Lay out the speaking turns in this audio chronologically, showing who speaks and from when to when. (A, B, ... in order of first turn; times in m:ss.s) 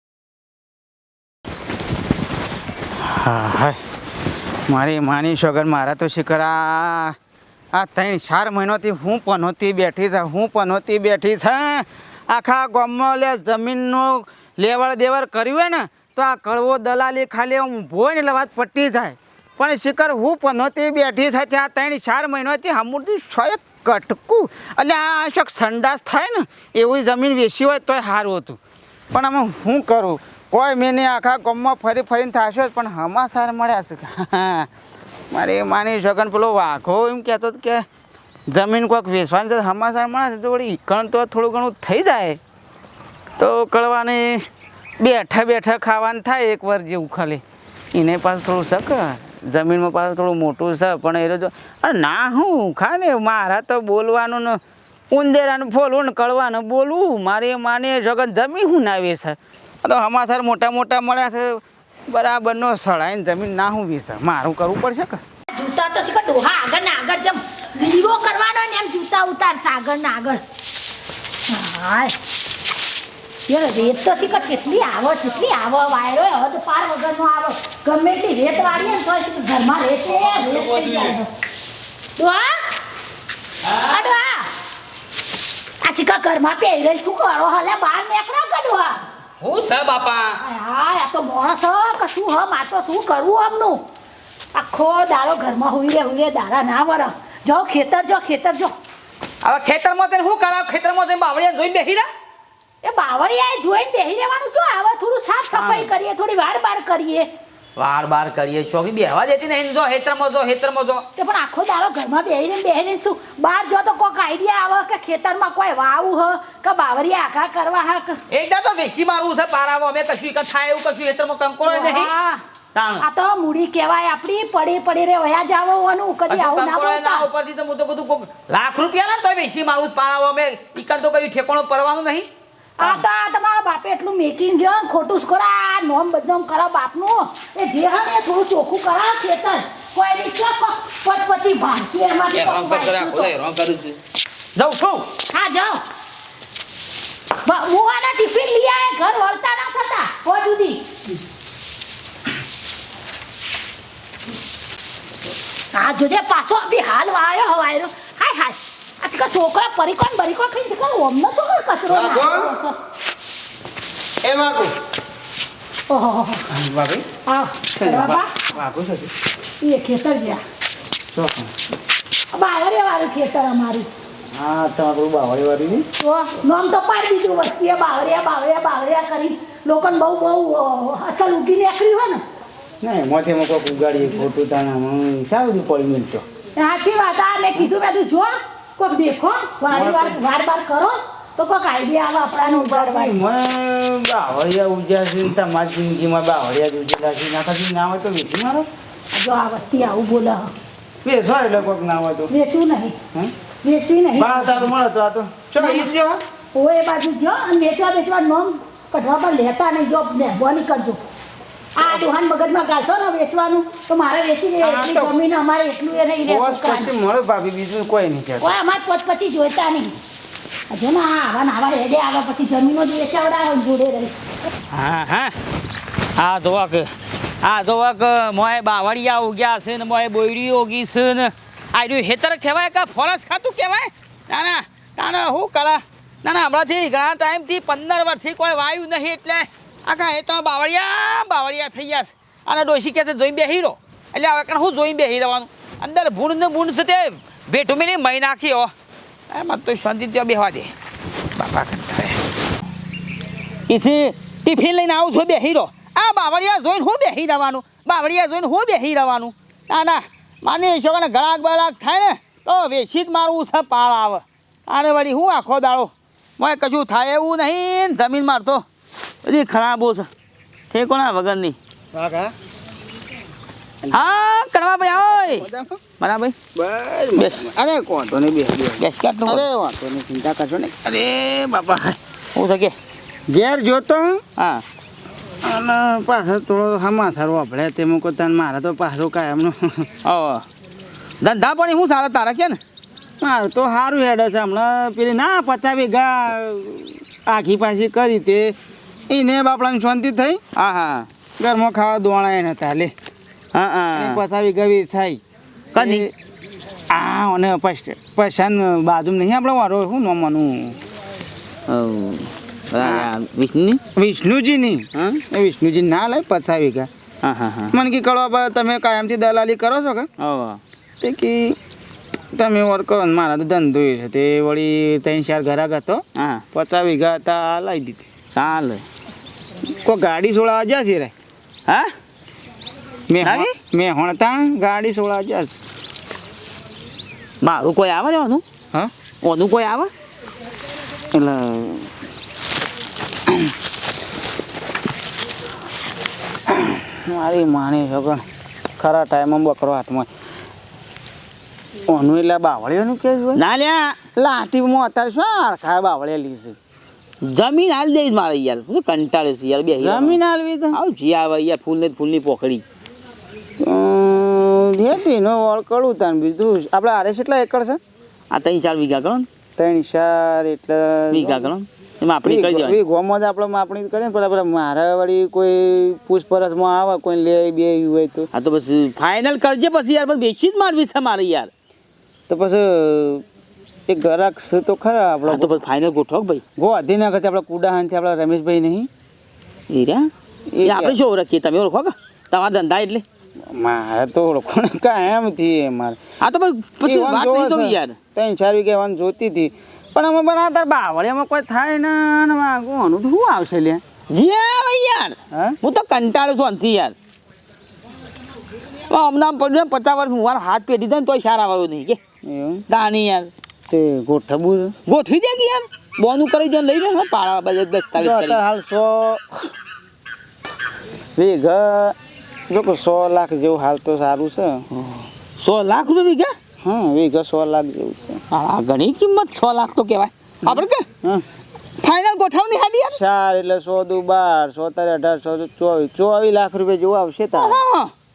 0:03.0-0:03.8 A
0:04.7-0:07.2 A
0:07.7-0:28.6 A
0:29.1-0:34.7 A
0:35.3-0:37.9 A
0:38.5-0:42.4 A
0:43.4-0:44.5 A
0:45.0-0:47.4 A
0:47.9-0:54.6 A
0:55.1-1:05.2 A
1:05.5-1:10.4 B
1:11.5-1:12.1 B
1:13.5-1:21.3 B
1:20.2-1:21.1 C
1:22.2-1:22.7 B
1:23.6-1:24.0 C
1:23.9-1:24.5 B
1:25.8-1:29.0 B
1:29.4-1:30.4 C
1:30.4-1:33.8 B
1:34.6-1:38.7 B
1:39.4-1:42.1 C
1:42.8-1:47.3 B
1:45.5-1:45.9 C
1:47.8-1:51.1 C
1:51.2-1:58.2 B
1:58.3-2:02.1 C
2:01.6-2:02.4 B
2:02.7-2:03.0 C
2:03.0-2:07.3 B
2:06.3-2:12.3 C
2:12.8-2:23.3 B
2:22.3-2:24.0 C
2:24.6-2:25.1 C
2:25.3-2:25.8 B
2:27.4-2:30.8 B
2:35.7-2:42.8 B
2:41.9-2:42.5 A
2:44.2-2:44.7 A
2:45.9-2:46.4 B
2:46.5-2:47.0 A
2:47.2-2:48.3 B
2:47.8-2:49.1 A
2:49.6-2:50.4 B
2:51.1-2:51.5 A
2:52.3-2:53.9 B
2:54.3-2:55.8 A
2:56.0-3:02.2 B
3:02.8-3:06.2 A
3:06.6-3:13.2 B
3:09.7-3:10.2 A
3:12.4-3:18.7 A
3:19.1-3:20.5 B
3:21.0-3:22.3 A
3:22.3-3:23.0 B
3:23.6-3:24.7 B
3:24.2-3:26.2 A
3:25.6-3:25.9 B
3:26.5-3:31.0 B
3:31.8-3:36.9 B
3:34.6-3:35.2 A
3:36.2-3:38.5 A
3:38.4-3:39.9 B
3:40.7-3:44.1 B
3:44.7-3:45.3 C
3:46.2-3:46.9 C
3:47.4-4:08.7 C
4:09.3-4:10.7 C
4:11.4-4:12.2 C
4:13.7-4:28.6 C
4:29.2-4:30.1 C
4:30.7-4:31.6 C
4:31.9-4:32.3 A
4:33.8-4:34.1 A
4:33.9-4:35.4 C
4:35.0-4:35.8 A
4:36.0-4:36.4 C
4:36.5-4:42.0 A
4:37.2-4:37.4 C
4:38.8-4:39.4 C
4:42.3-4:42.8 C
4:43.3-4:44.2 A
4:44.4-4:44.6 C
4:45.4-4:49.9 A
4:50.0-4:50.4 C
4:51.2-4:52.6 C
4:53.2-4:58.5 A
4:59.1-5:00.4 A
5:00.5-5:01.1 C
5:01.4-5:02.9 A
5:03.5-5:04.2 C
5:03.9-5:05.2 A
5:05.8-5:06.1 C
5:05.8-5:06.1 A
5:06.9-5:10.8 A
5:11.7-5:13.8 C
5:12.8-5:13.1 A
5:14.0-5:16.9 A
5:17.2-5:17.8 C
5:17.7-5:20.1 A
5:20.2-5:20.6 C
5:21.0-5:21.6 A
5:22.3-5:28.0 A
5:26.2-5:26.4 C
5:28.3-5:28.8 C
5:29.8-5:31.1 A
5:33.1-5:35.5 A
5:33.2-5:33.5 C
5:37.4-5:38.4 C
5:39.2-5:39.9 C
5:41.1-5:41.9 A
5:46.5-5:48.2 A
5:48.8-5:50.1 A
5:51.8-5:53.4 A
5:53.3-5:54.0 C
5:54.1-5:56.6 A
5:57.2-6:00.2 C
5:59.8-6:00.8 A
6:00.7-6:02.6 C
6:03.6-6:07.8 A
6:08.3-6:09.3 C
6:09.6-6:11.5 A
6:11.1-6:12.8 C
6:12.2-6:18.3 A
6:18.3-6:21.5 C
6:22.3-6:23.2 A
6:23.9-6:25.5 A
6:25.3-6:26.4 C
6:26.6-6:28.9 A
6:29.7-6:30.1 C
6:30.5-6:31.0 A
6:30.6-6:33.0 C
6:33.5-6:36.0 A
6:36.2-6:38.0 C
6:36.8-6:43.8 A
6:44.1-6:46.9 C
6:45.3-6:45.6 A
6:48.9-6:52.0 C
6:52.2-6:52.6 A
6:52.7-6:53.3 C
6:53.7-6:54.8 A
6:54.8-6:58.4 C
6:58.0-6:59.5 A
7:01.2-7:02.0 A
7:02.5-7:04.6 A
7:04.7-7:06.3 C
7:06.6-7:08.2 A
7:08.3-7:10.8 C
7:10.4-7:11.2 A
7:11.8-7:13.0 C
7:12.9-7:17.6 A
7:17.3-7:17.9 C